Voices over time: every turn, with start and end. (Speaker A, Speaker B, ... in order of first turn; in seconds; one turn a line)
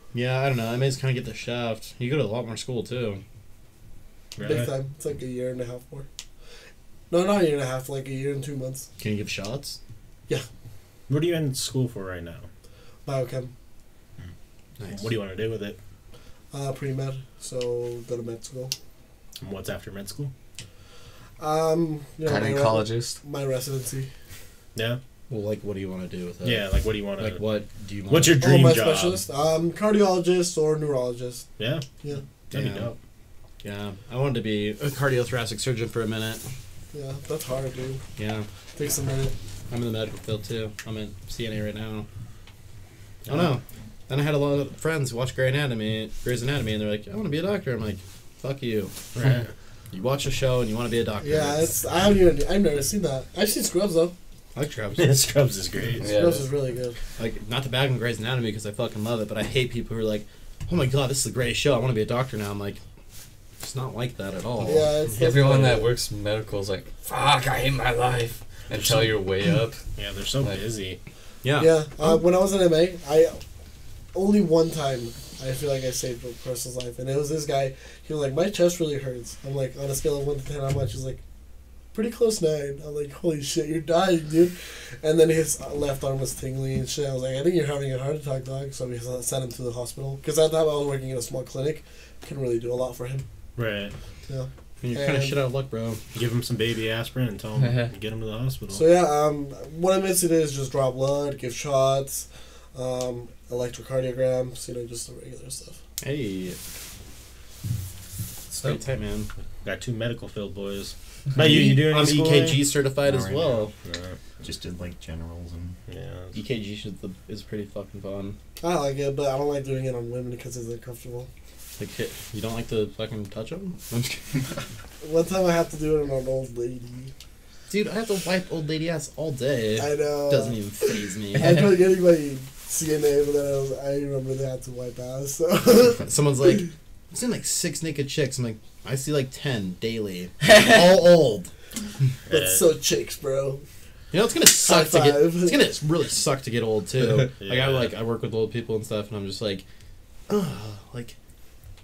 Speaker A: 0.1-3.2
Speaker B: 4.3-4.7
Speaker C: 4.4-6.0
Speaker C: 7.1-8.9
Speaker A: 9.0-9.8
Speaker B: 11.1-12.5
Speaker C: 13.1-13.5
Speaker A: 14.8-15.1
Speaker B: 14.9-15.8
Speaker C: 16.5-18.7
Speaker B: 19.4-20.3
Speaker C: 21.4-24.1
Speaker D: 22.2-23.2
Speaker B: 24.7-25.0
Speaker A: 25.3-26.7
Speaker B: 26.4-27.4
Speaker A: 27.2-28.4
Speaker B: 28.1-29.2
Speaker C: 28.4-31.5
Speaker B: 31.6-31.8
Speaker B: 32.5-33.0
Speaker A: 32.5-32.9
Speaker A: 33.6-36.4
Speaker C: 36.9-38.0
Speaker A: 38.2-38.5
Speaker C: 38.7-39.4
Speaker A: 39.7-42.1
Speaker B: 43.2-43.5
Speaker A: 43.3-49.0
Speaker B: 49.1-49.5
Speaker A: 49.9-51.7
Speaker C: 51.2-54.1
Speaker A: 54.5-55.1
Speaker B: 54.9-56.1
Speaker D: 56.0-56.5
Speaker C: 56.0-57.0
Speaker A: 57.2-62.8
Speaker A: 63.6-65.3
Speaker C: 64.6-65.9
Speaker D: 65.2-69.8
Speaker B: 68.8-69.1
Speaker B: 70.0-71.0
Speaker A: 71.4-71.8
Speaker C: 71.5-73.4
Speaker C: 74.1-81.2
Speaker C: 81.9-93.2
Speaker B: 93.5-93.9
Speaker C: 94.3-95.5
Speaker A: 94.8-96.0
Speaker B: 96.1-98.8
Speaker D: 97.6-97.9
Speaker C: 98.7-105.8
Speaker A: 106.0-106.6
Speaker A: 108.5-109.3
Speaker B: 109.6-112.7
Speaker A: 111.3-113.7
Speaker E: 113.0-113.7
Speaker B: 113.8-114.2
Speaker E: 114.4-115.8
Speaker B: 115.9-116.4
Speaker A: 116.3-118.3
Speaker C: 118.6-121.3
Speaker A: 121.8-124.4
Speaker C: 125.0-127.1
Speaker A: 127.7-131.7
Speaker C: 129.7-136.5
Speaker A: 136.0-141.5
Speaker D: 140.4-140.8
Speaker B: 142.3-142.7
Speaker C: 142.3-143.6
Speaker A: 144.1-149.6
Speaker C: 144.5-145.7
Speaker B: 146.9-147.9
Speaker A: 150.3-151.2